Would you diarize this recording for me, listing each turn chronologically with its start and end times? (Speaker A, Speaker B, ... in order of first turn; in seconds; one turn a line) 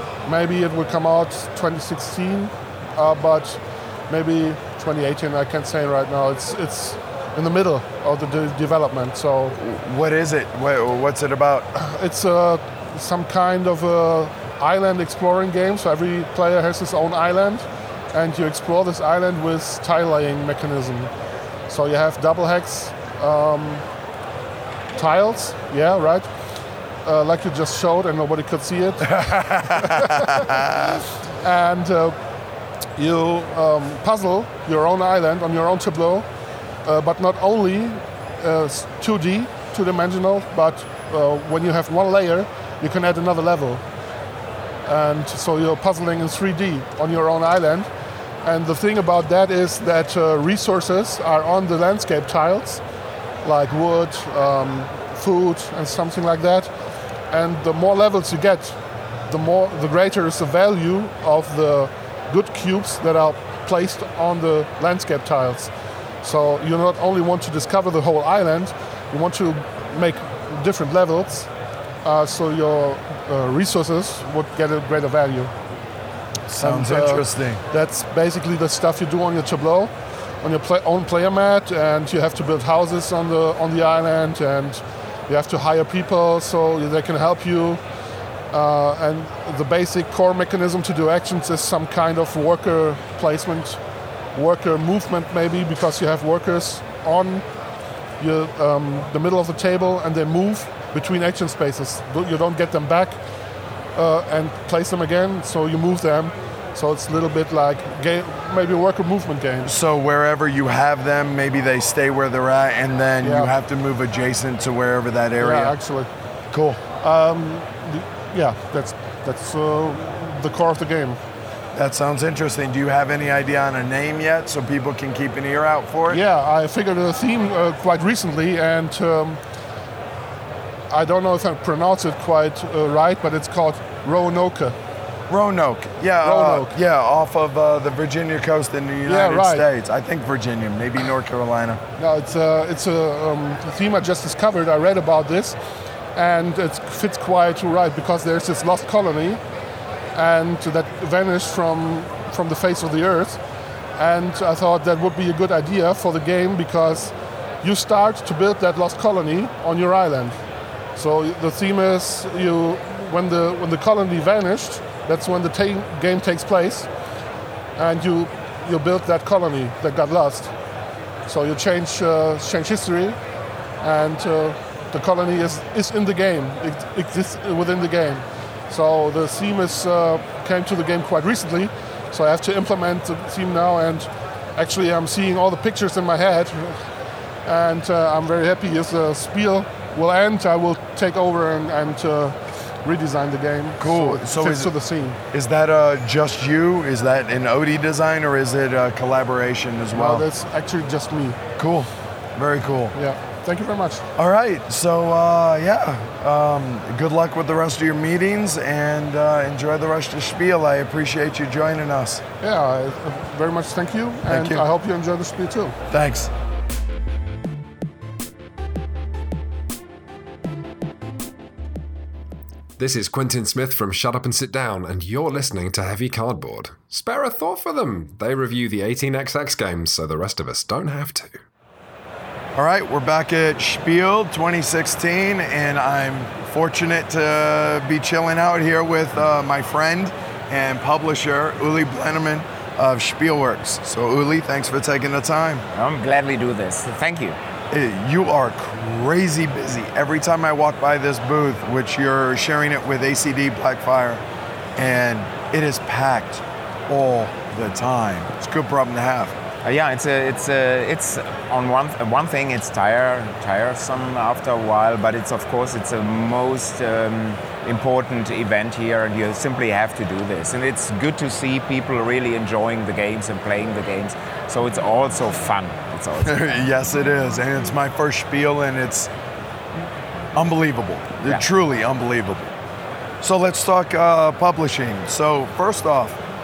Speaker A: 0.2-9.6
Speaker B: 9.5-11.7
Speaker A: 11.8-21.1
Speaker A: 21.7-23.9
Speaker A: 24.9-26.3
Speaker A: 27.0-30.6
Speaker B: 29.2-30.9
Speaker A: 31.4-32.2
Speaker A: 33.0-36.2
Speaker A: 36.8-43.8
Speaker A: 44.9-47.9
Speaker A: 48.4-52.8
Speaker A: 53.4-56.7
Speaker A: 57.3-71.5
Speaker A: 72.0-75.5
Speaker A: 76.5-87.8
Speaker B: 76.5-77.6
Speaker A: 88.5-93.8
Speaker A: 94.3-97.5
Speaker A: 98.2-103.2
Speaker A: 103.9-109.7
Speaker B: 109.6-115.8
Speaker A: 113.2-113.5
Speaker A: 115.4-116.1
Speaker B: 116.5-116.8
Speaker A: 117.0-121.2
Speaker B: 121.7-126.2
Speaker A: 126.1-129.4
Speaker A: 130.9-134.8
Speaker B: 135.3-141.8
Speaker A: 136.2-136.7
Speaker A: 139.1-139.6
Speaker A: 142.0-145.6
Speaker A: 146.1-149.4
Speaker A: 150.1-153.4
Speaker A: 154.0-160.4
Speaker A: 160.9-166.9
Speaker A: 167.8-170.5
Speaker A: 171.2-173.2
Speaker A: 173.8-186.9
Speaker A: 187.4-195.2
Speaker B: 193.8-194.7
Speaker B: 195.3-200.2
Speaker A: 199.9-201.4
Speaker B: 201.6-202.9
Speaker A: 202.9-204.1
Speaker B: 204.1-212.2
Speaker A: 212.4-215.8
Speaker B: 214.2-214.6
Speaker B: 215.9-216.3
Speaker C: 222.8-231.4
Speaker B: 232.5-245.6
Speaker D: 245.7-247.4
Speaker B: 247.7-254.2
Speaker B: 254.8-259.4
Speaker D: 259.6-276.6
Speaker B: 276.2-279.1
Speaker B: 280.3-282.5
Speaker B: 283.2-286.2